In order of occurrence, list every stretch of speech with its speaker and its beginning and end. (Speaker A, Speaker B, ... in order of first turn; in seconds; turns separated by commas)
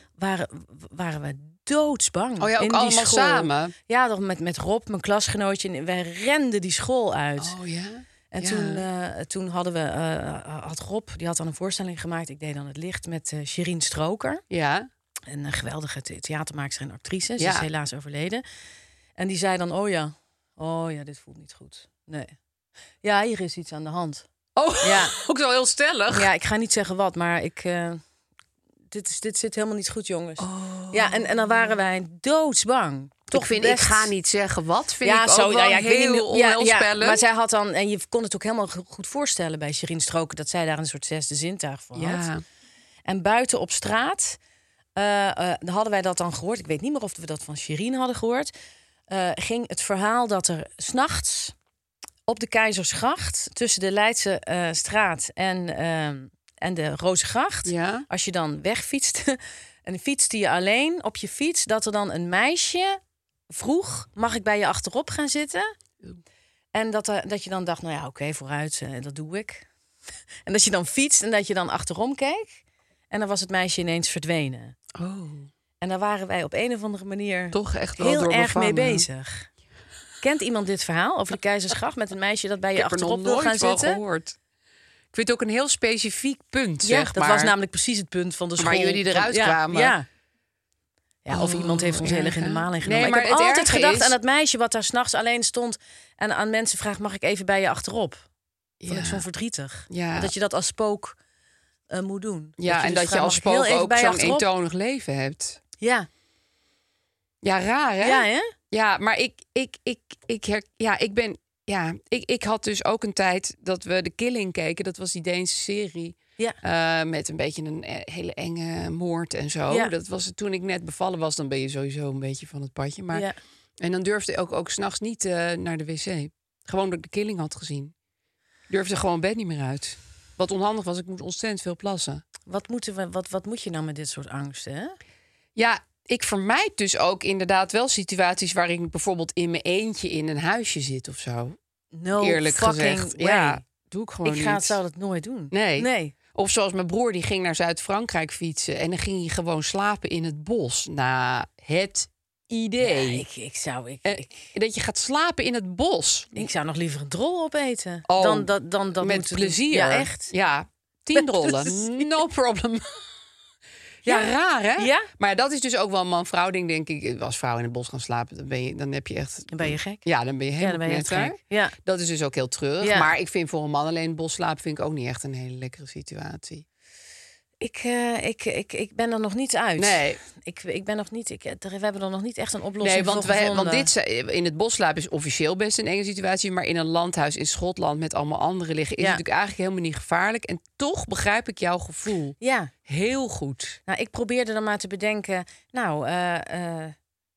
Speaker A: 0.2-7.5, Speaker B: 2.4-3.7, Speaker B: 7.4-8.8, Speaker A: 8.3-14.4, Speaker B: 14.5-14.9, Speaker A: 15.3-18.4, Speaker B: 17.4-17.7, Speaker A: 19.2-22.4, Speaker A: 23.0-24.3, Speaker B: 24.6-26.3, Speaker A: 24.8-25.2, Speaker A: 26.1-28.0, Speaker A: 28.9-34.1, Speaker B: 30.4-31.5, Speaker B: 33.3-37.2, Speaker A: 35.0-42.3, Speaker B: 42.0-42.4, Speaker A: 43.1-44.4, Speaker A: 45.0-48.5, Speaker A: 49.1-51.5, Speaker A: 52.3-63.0, Speaker B: 57.7-58.1, Speaker A: 63.5-65.7, Speaker A: 66.7-69.7, Speaker A: 70.5-74.8, Speaker B: 75.0-75.5, Speaker A: 75.8-79.5, Speaker B: 77.5-79.1, Speaker A: 80.2-84.0, Speaker B: 82.8-84.4, Speaker B: 85.1-87.5, Speaker A: 86.8-90.1, Speaker B: 88.6-90.0, Speaker A: 91.2-98.2, Speaker B: 91.3-94.2, Speaker B: 98.8-99.2, Speaker A: 98.9-101.2, Speaker B: 99.9-100.3, Speaker A: 101.9-104.5, Speaker B: 102.6-105.6, Speaker A: 105.8-106.1, Speaker B: 107.4-123.3, Speaker A: 108.0-108.5, Speaker B: 123.8-127.9, Speaker B: 128.7-132.2, Speaker A: 132.5-135.0, Speaker B: 135.6-141.6, Speaker A: 141.9-143.6, Speaker B: 142.2-144.8, Speaker A: 144.2-146.1, Speaker B: 145.5-153.2, Speaker A: 152.8-154.5, Speaker B: 154.1-156.5, Speaker A: 156.3-160.3, Speaker B: 158.1-162.9, Speaker A: 161.2-162.0, Speaker B: 164.0-176.7, Speaker A: 164.1-165.1, Speaker A: 169.5-170.0, Speaker A: 170.6-171.8, Speaker A: 172.8-173.1, Speaker A: 177.6-183.9, Speaker B: 179.8-180.2, Speaker B: 182.8-192.4, Speaker A: 192.4-192.7, Speaker B: 192.9-193.8, Speaker A: 193.9-196.9